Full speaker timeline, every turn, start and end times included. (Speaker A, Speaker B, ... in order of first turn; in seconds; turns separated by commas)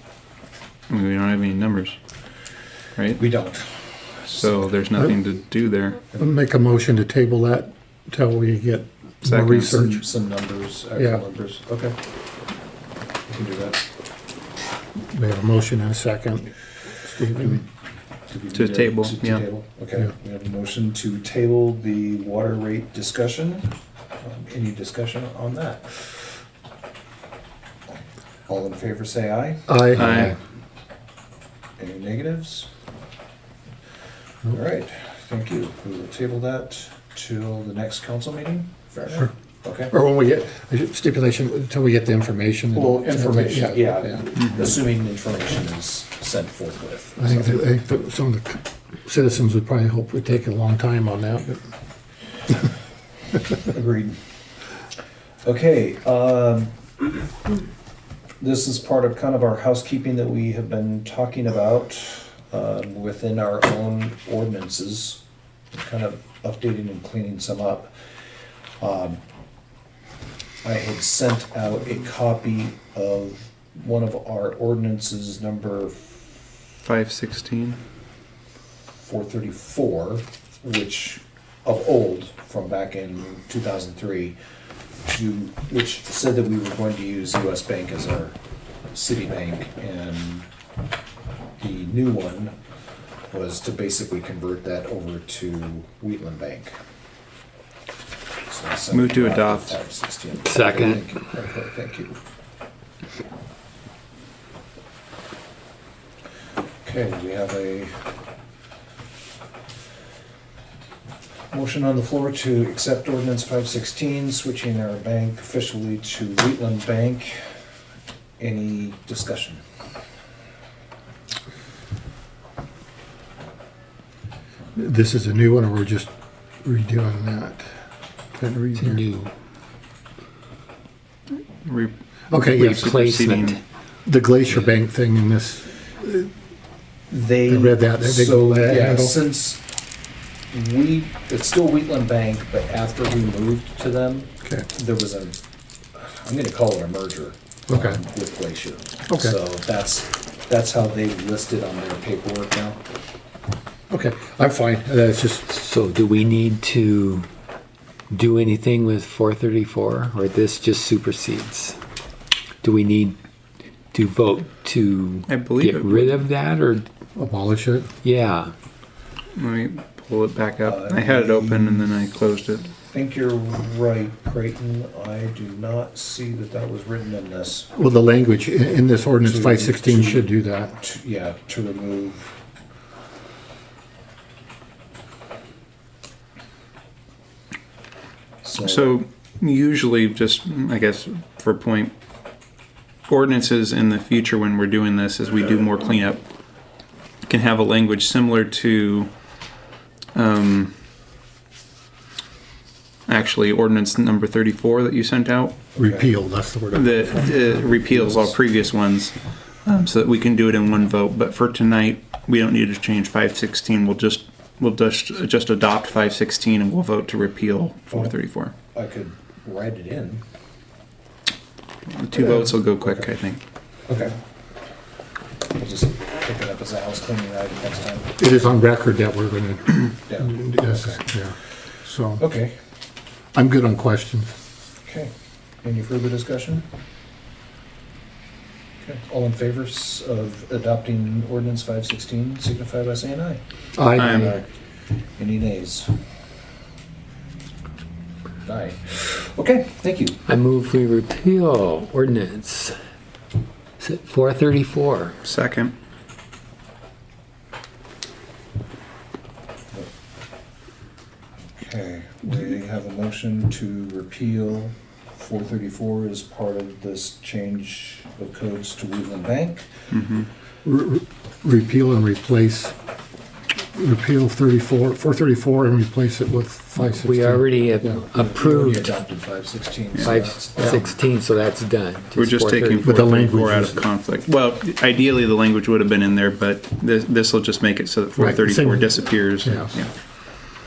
Speaker A: 0.9-2.0, Speaker A: 3.0-3.2, Speaker B: 3.2-4.8, Speaker A: 4.4-6.0, Speaker C: 6.1-10.1, Speaker A: 9.2-9.9, Speaker B: 9.6-11.9, Speaker C: 10.9-11.2, Speaker B: 13.3-13.8, Speaker C: 15.0-17.6, Speaker B: 18.3-26.2, Speaker A: 18.5-19.4, Speaker B: 28.5-30.0, Speaker C: 29.7-30.3, Speaker A: 29.9-30.3, Speaker B: 31.8-32.7, Speaker B: 34.5-39.9, Speaker C: 39.9-44.2, Speaker B: 42.7-47.6, Speaker C: 47.2-51.6, Speaker B: 53.6-54.2, Speaker B: 55.4-56.7, Speaker B: 58.4-65.2, Speaker B: 65.7-68.1, Speaker B: 68.8-69.2, Speaker B: 70.6-76.1, Speaker A: 76.8-77.8, Speaker B: 79.0-84.4, Speaker B: 85.1-88.3, Speaker B: 88.9-90.5, Speaker B: 91.6-92.5, Speaker B: 93.3-96.7, Speaker B: 98.5-102.2, Speaker A: 98.9-99.8, Speaker D: 100.4-101.0, Speaker B: 106.8-107.9, Speaker B: 111.5-117.5, Speaker B: 118.4-119.6, Speaker C: 124.7-126.1, Speaker C: 126.6-127.7, Speaker C: 128.4-129.0, Speaker D: 128.8-129.3, Speaker A: 131.6-133.6, Speaker C: 132.3-133.0, Speaker D: 132.8-133.6, Speaker C: 134.1-136.3, Speaker B: 137.1-139.6, Speaker C: 137.5-139.2, Speaker B: 140.5-145.4, Speaker B: 145.9-152.8, Speaker C: 147.7-148.0, Speaker C: 149.1-149.3, Speaker C: 153.9-155.5, Speaker D: 155.5-157.3, Speaker D: 158.1-161.8, Speaker D: 162.6-163.2, Speaker D: 163.9-166.9, Speaker A: 165.3-166.2, Speaker C: 167.2-167.9, Speaker D: 168.0-168.5, Speaker A: 169.3-172.7, Speaker B: 170.6-171.9, Speaker B: 172.9-177.7, Speaker C: 177.7-180.7, Speaker B: 179.2-182.3, Speaker B: 188.4-189.0, Speaker A: 188.6-191.9, Speaker A: 193.1-196.2, Speaker A: 197.3-199.1, Speaker A: 200.1-200.7, Speaker A: 203.1-205.6, Speaker C: 205.8-207.6, Speaker B: 205.8-206.1, Speaker A: 206.7-209.1, Speaker B: 207.7-208.3, Speaker A: 209.6-218.5, Speaker B: 217.9-218.2, Speaker B: 218.7-220.2, Speaker A: 221.9-223.4, Speaker B: 222.1-223.2, Speaker B: 223.9-224.2, Speaker B: 225.5-228.2, Speaker C: 228.2-232.2, Speaker B: 230.1-231.0, Speaker B: 232.2-232.5, Speaker C: 233.3-234.3, Speaker B: 234.8-235.1, Speaker B: 235.6-236.7, Speaker B: 238.8-243.4, Speaker C: 243.8-244.4, Speaker A: 243.9-244.4, Speaker B: 245.2-245.9, Speaker B: 248.4-250.2, Speaker D: 250.3-252.7, Speaker D: 253.8-255.2, Speaker A: 255.2-255.7, Speaker B: 261.5-269.7, Speaker A: 269.9-270.3, Speaker C: 270.6-272.7, Speaker C: 273.7-278.0, Speaker D: 276.8-278.9, Speaker B: 278.1-281.0, Speaker A: 279.9-280.8, Speaker D: 280.0-283.7, Speaker A: 282.2-289.9, Speaker C: 282.8-283.8, Speaker C: 288.2-289.7